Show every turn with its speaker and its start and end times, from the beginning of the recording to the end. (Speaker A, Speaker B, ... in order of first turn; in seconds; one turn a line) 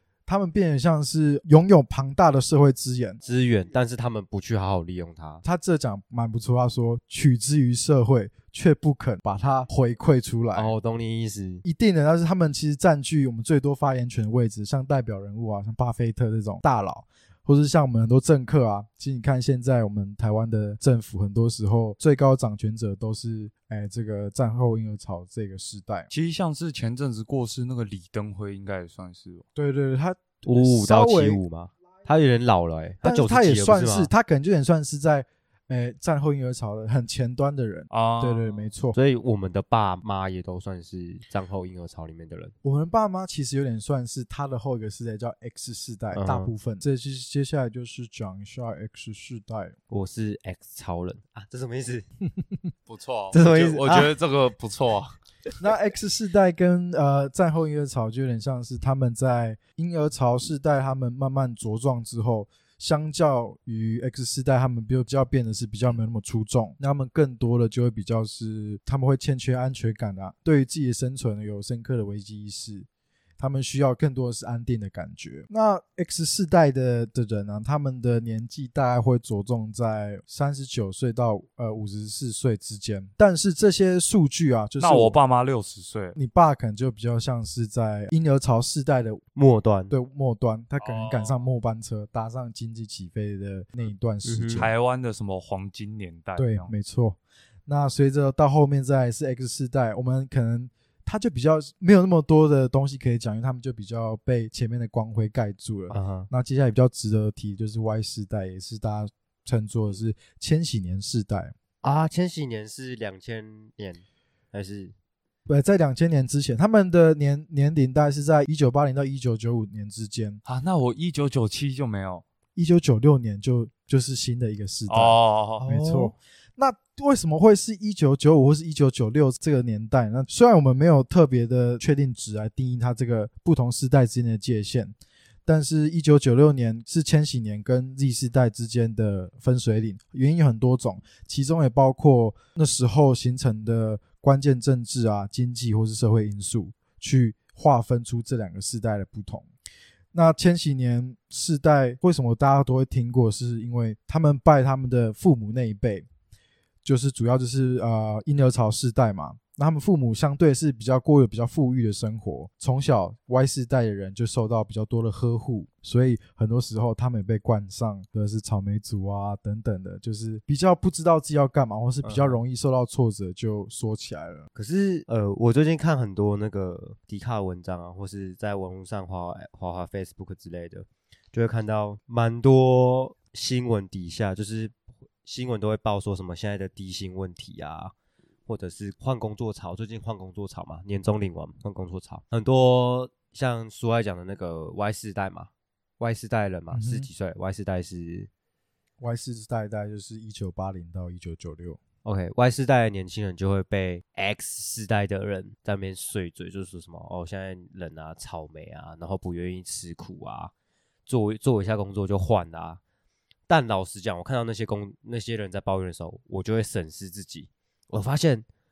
Speaker A: 0.2-3.2
Speaker B: 3.2-5.4
Speaker A: 5.4-10.7
Speaker B: 10.5-11.6
Speaker A: 11.6-26.1
Speaker C: 26.1-29.4
Speaker A: 29.6-31.4
Speaker B: 30.4-34.1
Speaker A: 33.0-39.0
Speaker C: 37.9-38.6
Speaker B: 38.9-42.5
Speaker A: 42.6-49.7
Speaker B: 46.1-46.5
Speaker B: 49.9-52.0
Speaker C: 52.9-55.1
Speaker B: 53.3-54.1
Speaker A: 55.6-72.9
Speaker A: 73.4-85.2
Speaker C: 84.8-86.2
Speaker A: 86.1-89.2
Speaker B: 89.3-89.9
Speaker A: 89.9-94.7
Speaker C: 90.8-91.4
Speaker B: 94.2-94.7
Speaker C: 94.6-96.7
Speaker A: 96.4-111.5
Speaker B: 105.9-106.3
Speaker B: 111.8-114.9
Speaker A: 115.5-120.4
Speaker C: 120.4-122.2
Speaker A: 122.5-134.9
Speaker C: 124.9-125.7
Speaker B: 125.7-126.1
Speaker A: 135.4-149.5
Speaker A: 150.1-156.1
Speaker A: 156.8-174.5
Speaker B: 172.0-172.4
Speaker B: 174.5-184.7
Speaker B: 185.2-187.9
Speaker B: 188.4-198.3
Speaker A: 196.7-197.1
Speaker A: 199.0-201.8
Speaker B: 202.0-210.5
Speaker B: 211.1-212.8
Speaker B: 213.5-218.4